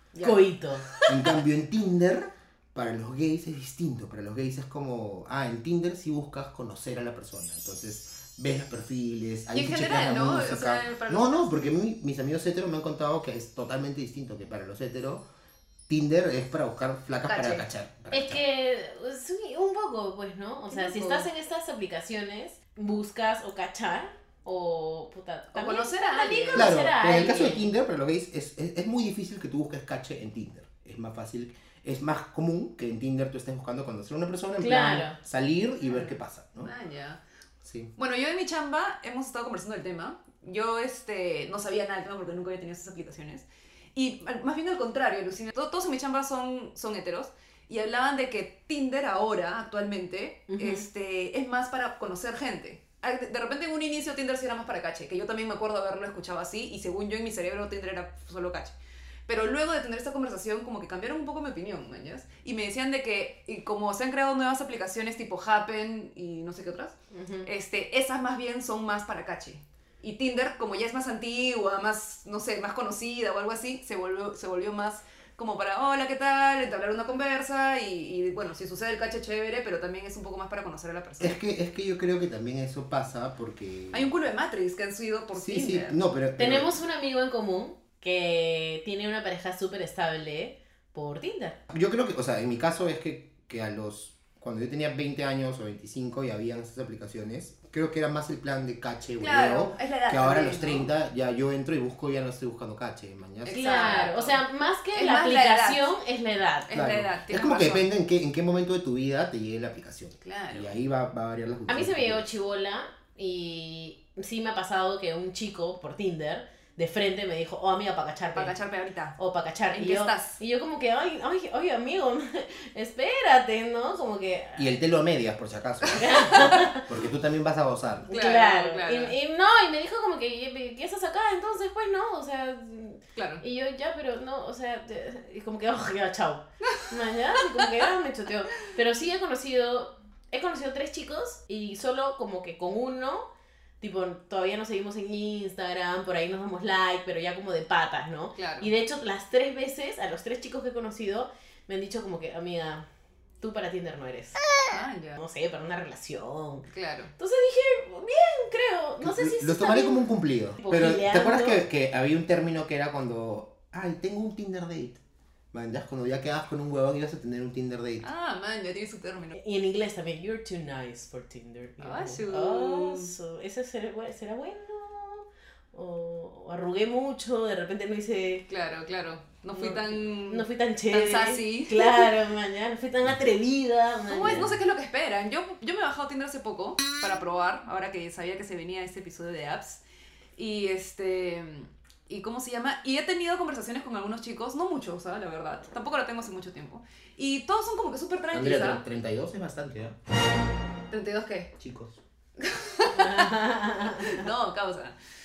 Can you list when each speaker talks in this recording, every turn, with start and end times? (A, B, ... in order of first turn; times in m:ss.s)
0:00.1-0:01.3 A
0:00.2-0:00.9 B
0:01.0-0:15.2 C
0:09.5-0:11.6 A
0:15.9-0:18.4 C
0:17.2-0:17.6 A
0:18.1-0:27.6 B
0:20.7-0:21.3 A
0:25.5-0:26.7 A
0:26.5-0:36.7 C
0:34.6-0:35.2 B
0:35.8-0:37.2 A
0:37.6-0:37.9 C
0:38.0-0:58.7 A
0:50.5-0:50.8 B
0:59.3-1:06.9 A
1:07.1-1:07.5 B
1:07.4-1:21.4 A
1:21.2-1:24.1 C
1:23.9-1:26.0 A
1:25.3-1:26.7 C
1:26.4-1:31.6 B
1:31.7-1:44.0 C
1:39.2-1:40.9 A
1:43.4-1:44.4 A
1:43.5-1:46.7 B
1:44.9-1:45.9 A
1:46.7-1:47.8 A
1:46.7-1:52.2 C
1:50.2-1:50.7 A
1:51.7-1:58.5 B
1:58.3-1:59.2 A
1:59.2-2:04.7 B
1:59.7-2:00.4 A
2:04.6-2:08.1 C
2:05.8-2:06.6 A
2:05.9-2:06.9 B
2:08.1-2:09.2 A
2:08.1-2:23.3 B
2:13.2-2:13.4 A
2:23.8-2:32.8 B
2:28.4-2:28.7 A
2:33.4-2:34.4 B
2:34.7-2:35.2 A
2:35.2-2:36.6 B
2:36.7-2:37.1 A
2:37.2-2:40.0 B
2:39.0-2:45.0 C
2:40.6-2:41.6 B
2:45.5-2:48.1 C
2:48.0-2:49.4 A
2:49.3-2:58.4 B
2:51.8-2:53.1 A
2:58.5-3:02.1 A
2:59.5-3:04.6 B
3:04.1-3:09.8 A
3:10.4-3:18.8 A
3:18.3-3:20.0 C
3:20.9-3:21.5 A
3:21.6-3:22.0 C
3:22.4-3:23.3 A
3:22.9-3:24.3 B
3:23.8-3:25.0 A